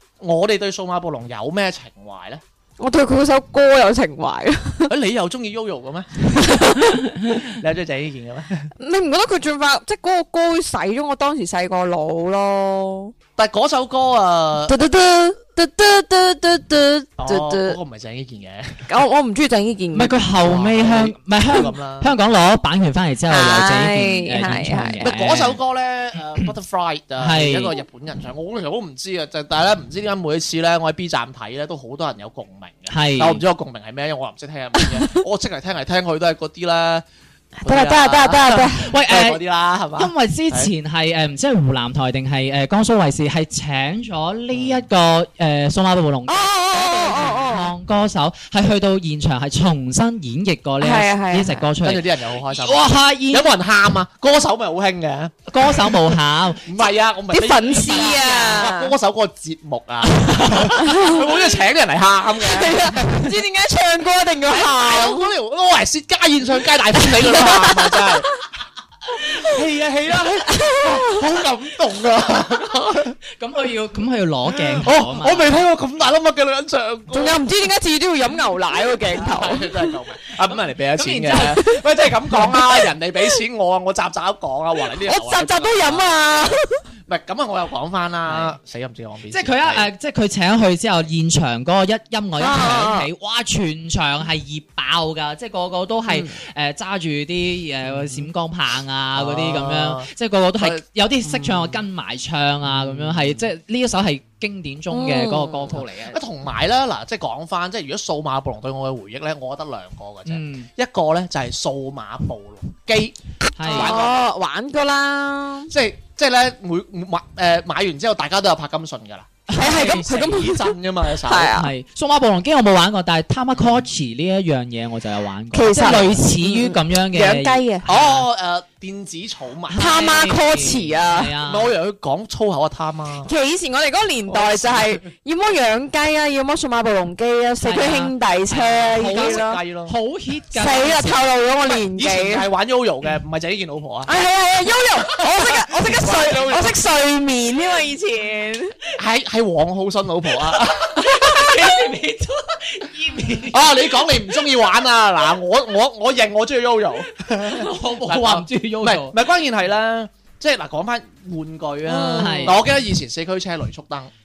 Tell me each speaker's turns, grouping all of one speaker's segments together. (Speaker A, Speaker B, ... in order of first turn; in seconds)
Speaker A: 0.2-2.4, 4.9-6.7, 7.3-8.7, 13.4-14.7, 17.2-18.9, 20.4-22.1, 25.0-37.0, 37.6-40.7, 44.5-44.8, 51.8-56.1, 56.6-63.3, 64.5-68.4, 69.1-73.2, 74.6-77.4, 79.1-86.5, 87.0-89.9, 97.8-98.3, 99.1-100.1, 100.6-101.8, 102.6-103.4, 106.0-114.2, 115.7-121.5, 123.5-123.8, 127.8-130.1, 131.4-133.3, 134.3-135.0, 138.9-139.9, 141.9-144.1, 145.4-146.8, 148.9-151.5, 153.5-164.1
Speaker B: 2.8-4.9, 6.4-7.0, 8.8-13.1, 14.7-17.8, 18.9-20.1, 23.3-25.1, 34.8-35.0, 37.6-38.8, 46.3-47.7, 50.8-51.6, 57.3-58.9, 60.8-61.3, 62.4-65.3, 67.0-68.2, 70.6-71.1, 77.1-79.9, 82.3-82.9, 85.0-86.8, 92.4-93.1, 104.9-105.7, 113.7-115.7, 119.5-121.7, 125.5-127.8, 129.8-131.3, 133.2-139.6, 140.5-142.4, 144.1-148.7, 161.8-162.6
Speaker C: 19.9-25.6, 27.2-27.8, 32.9-33.4, 38.8-39.4, 40.0-53.5, 55.5-56.8, 60.3-60.6, 73.4-75.5, 80.5-81.8, 88.2-88.5, 89.3-106.2, 110.3-110.7, 113.5-114.0, 119.5-120.2, 121.5-128.3, 129.7-131.7, 137.6-141.3, 150.9-154.2, 157.4-159.2, 162.2-162.7